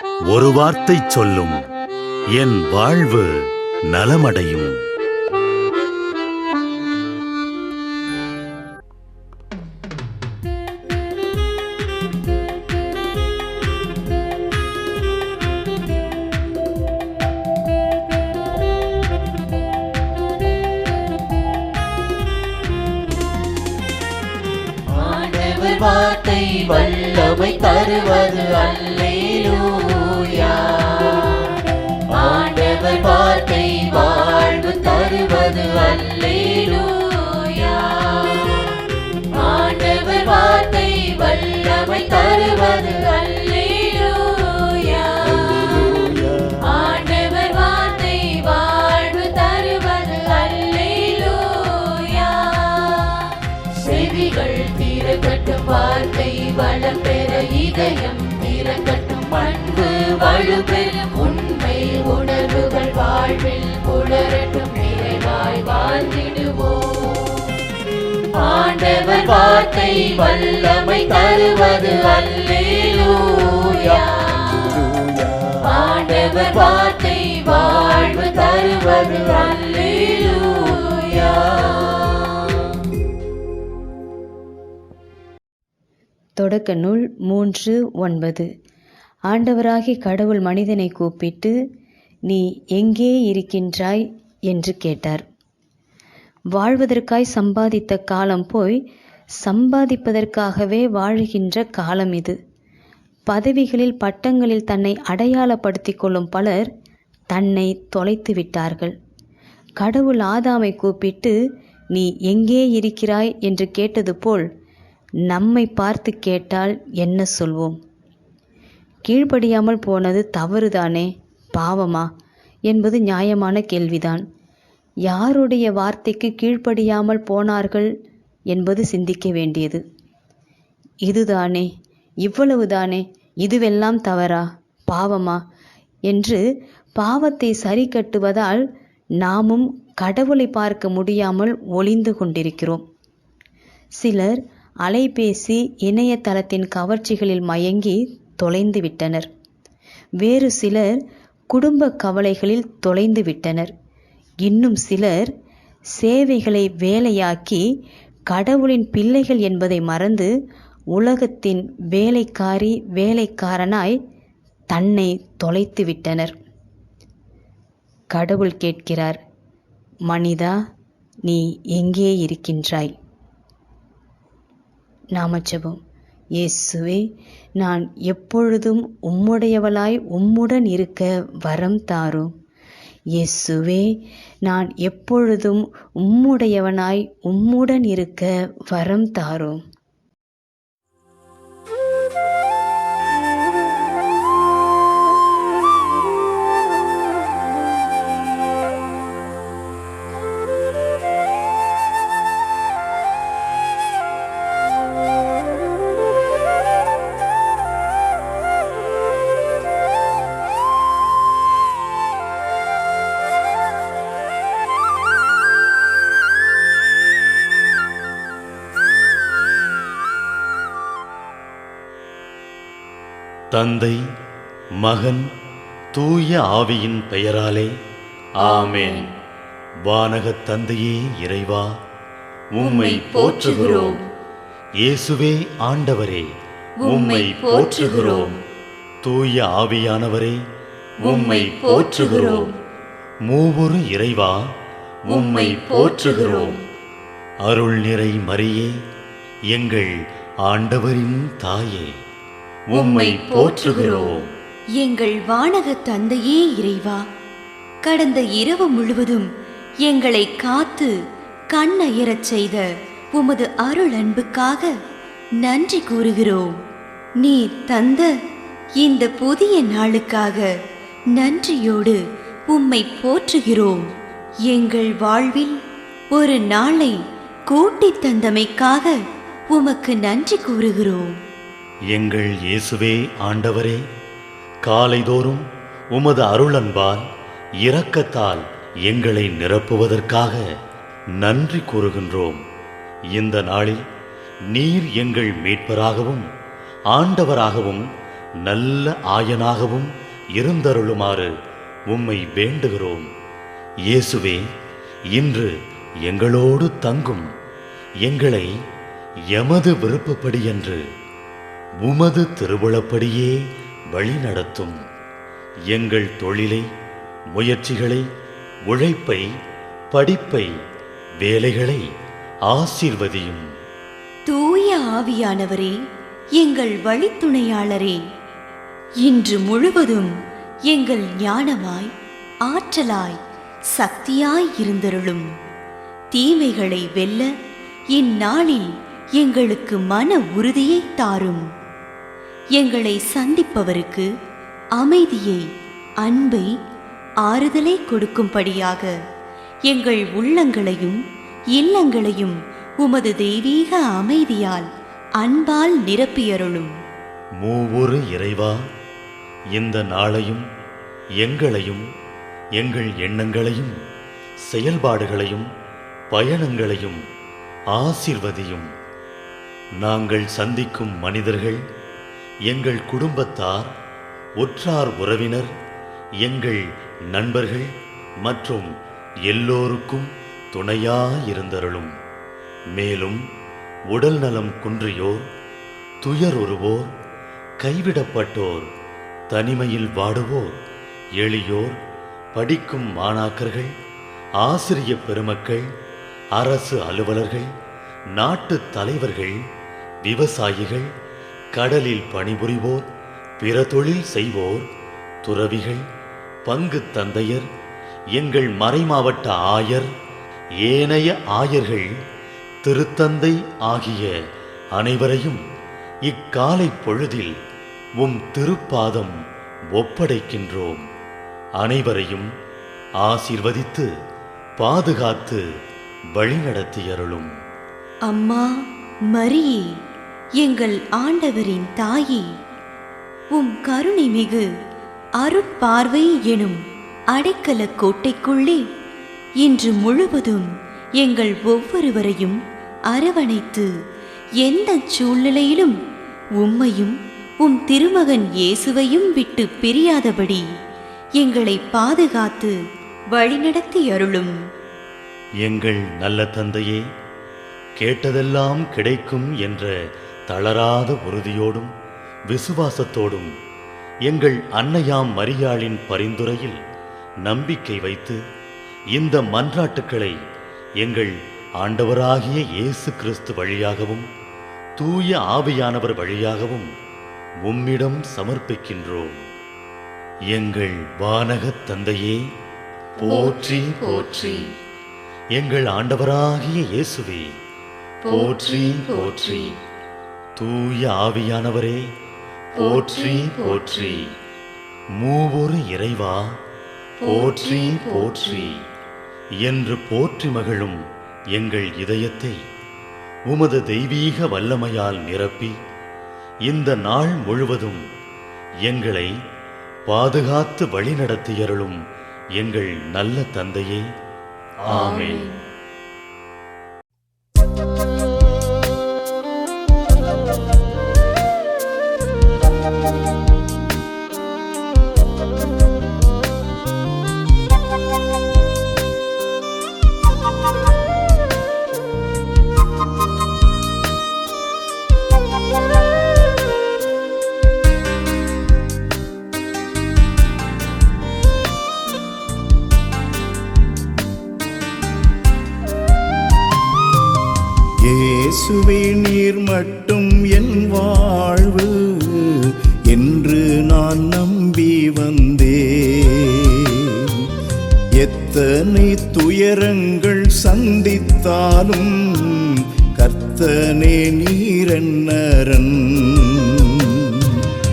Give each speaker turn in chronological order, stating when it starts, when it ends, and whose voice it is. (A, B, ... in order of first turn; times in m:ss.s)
0:00.3-0:01.6 A
0:02.4-0:03.4 A
0:03.9-0:04.8 A
0:24.9-1:07.5 B
1:08.3-1:22.7 B
1:26.4-1:28.5 C
1:29.3-1:31.5 C
1:32.3-1:35.2 C
1:36.6-1:38.8 C
1:39.4-1:42.4 C
1:43.3-1:46.7 C
1:47.3-1:48.9 C
1:49.8-1:51.3 C
1:51.9-1:54.4 C
1:55.3-1:57.8 C
1:59.1-2:02.1 C
2:02.7-2:04.2 C
2:05.1-2:07.9 C
2:08.5-2:09.8 C
2:11.1-2:11.7 C
2:12.2-2:15.4 C
2:16.1-2:16.4 C
2:17.0-2:18.6 C
2:19.2-2:22.8 C
2:24.0-2:29.3 C
2:30.2-2:31.0 C
2:31.5-2:33.7 C
2:34.4-2:35.3 C
2:36.0-2:37.6 C
2:38.3-2:40.3 C
2:41.0-2:44.0 C
2:44.7-2:46.4 C
2:48.1-2:49.2 C
2:50.1-2:50.6 C
2:51.3-2:52.9 C
2:55.2-2:55.8 C
2:56.4-2:57.0 C
2:57.6-3:02.3 C
3:03.2-3:03.9 C
3:04.5-3:09.6 C
3:43.5-3:44.0 A
3:44.8-3:45.3 A
3:46.0-3:47.7 A
3:48.4-3:49.1 D
3:48.4-3:49.1 A
3:49.9-3:51.7 A
3:52.6-3:54.0 D
3:52.6-3:54.0 A
3:54.8-3:56.3 A
3:56.8-3:58.4 D
3:56.8-3:58.3 A
3:59.0-4:00.4 A
4:01.0-4:02.5 D
4:01.0-4:02.5 A
4:03.3-4:04.4 A
4:05.1-4:06.6 A
4:05.1-4:06.6 D
4:07.5-4:08.7 A
4:09.5-4:09.9 A
4:10.5-4:11.9 A
4:12.7-4:14.3 A
4:12.7-4:14.3 D
4:14.8-4:17.0 D
4:17.8-4:19.3 D
4:19.8-4:20.9 D
4:21.5-4:24.7 D
4:25.4-4:26.6 D
4:27.2-4:28.1 D
4:28.8-4:30.5 D
4:31.1-4:33.9 D
4:34.5-4:35.6 D
4:36.1-4:39.0 D
4:39.5-4:41.1 D
4:41.9-4:43.8 A
4:44.7-4:47.0 A
4:47.6-4:50.4 A
4:51.2-4:52.4 A
4:53.1-4:53.8 A
4:54.5-4:56.3 A
4:56.9-4:57.8 A
4:58.4-5:01.3 A
5:01.9-5:03.1 A
5:03.9-5:04.4 A
5:05.1-5:05.5 A
5:06.1-5:07.3 A
5:08.0-5:08.5 A
5:09.3-5:10.8 A
5:11.8-5:13.3 A
5:13.9-5:14.8 A
5:15.7-5:16.7 A
5:17.3-5:18.0 A
5:18.7-5:19.3 A
5:19.9-5:20.5 A
5:21.2-5:21.8 A
5:22.5-5:23.4 A
5:24.3-5:25.8 D
5:26.4-5:28.0 D
5:29.0-5:30.1 D
5:30.7-5:31.9 D
5:32.5-5:33.2 D
5:33.7-5:35.3 D
5:36.1-5:37.3 D
5:37.9-5:41.5 D
5:42.6-5:44.1 D
5:44.8-5:45.4 D
5:46.0-5:46.5 D
5:47.2-5:49.0 D
5:49.7-5:51.0 D
5:51.6-5:54.7 D
5:55.2-5:56.7 D
5:57.4-5:58.6 A
5:59.6-6:00.4 A
6:01.2-6:01.8 A
6:02.6-6:03.8 A
6:04.5-6:05.5 A
6:06.1-6:07.0 A
6:07.8-6:08.7 A
6:09.8-6:11.6 A
6:12.5-6:13.7 A
6:14.4-6:15.5 A
6:16.2-6:17.7 A
6:18.2-6:18.7 A
6:19.3-6:21.9 A
6:22.8-6:23.2 A
6:23.9-6:25.3 A
6:26.0-6:26.9 A
6:27.6-6:28.7 A
6:29.3-6:30.6 A
6:31.2-6:31.8 A
6:32.4-6:33.7 A
6:34.4-6:35.7 A
6:36.4-6:37.5 A
6:38.2-6:39.4 A
6:40.0-6:40.9 A
6:41.6-6:42.8 A
6:43.4-6:44.7 A
6:45.2-6:45.8 A
6:46.5-6:47.5 A
6:48.2-6:49.9 A
6:50.6-6:51.9 A
6:52.6-6:54.1 A
6:54.8-6:55.4 A
6:56.1-6:57.3 A
6:58.0-6:59.2 A
6:59.7-7:00.8 A
7:01.6-7:02.3 A
7:03.0-7:03.9 A
7:04.6-7:05.4 A
7:06.2-7:07.3 A
7:08.1-7:08.6 D
7:09.1-7:09.7 D
7:10.4-7:12.3 D
7:13.3-7:14.5 D
7:15.2-7:16.6 D
7:17.1-7:18.6 D
7:19.4-7:23.7 D
7:24.4-7:25.8 D
7:26.4-7:30.5 D
7:31.2-7:32.6 D
7:33.1-7:34.3 D
7:35.4-7:36.8 A
7:37.8-7:39.7 A
7:40.3-7:41.7 A
7:42.3-7:43.3 A
7:44.1-7:46.6 A
7:47.2-7:48.2 A
7:49.0-7:50.2 A
7:50.8-7:54.1 A
7:54.8-7:56.7 A
7:57.4-7:59.2 A
8:00.3-8:02.2 A
8:03.0-8:04.5 A
8:03.1-8:04.4 D
8:05.4-8:07.3 A
8:08.1-8:09.5 D
8:08.1-8:09.5 A
8:10.4-8:11.8 A
8:12.6-8:14.1 A
8:12.6-8:14.0 D
8:15.0-8:16.2 A
8:17.0-8:18.5 D
8:17.0-8:18.6 A
8:19.4-8:20.8 A
8:21.4-8:22.4 A
8:23.3-8:25.6 A
8:26.5-8:27.8 A
8:28.6-8:29.1 A
8:29.9-8:31.8 A
8:32.4-8:33.8 A
8:34.6-8:35.3 A
9:07.8-9:17.3 E
9:18.0-9:27.5 E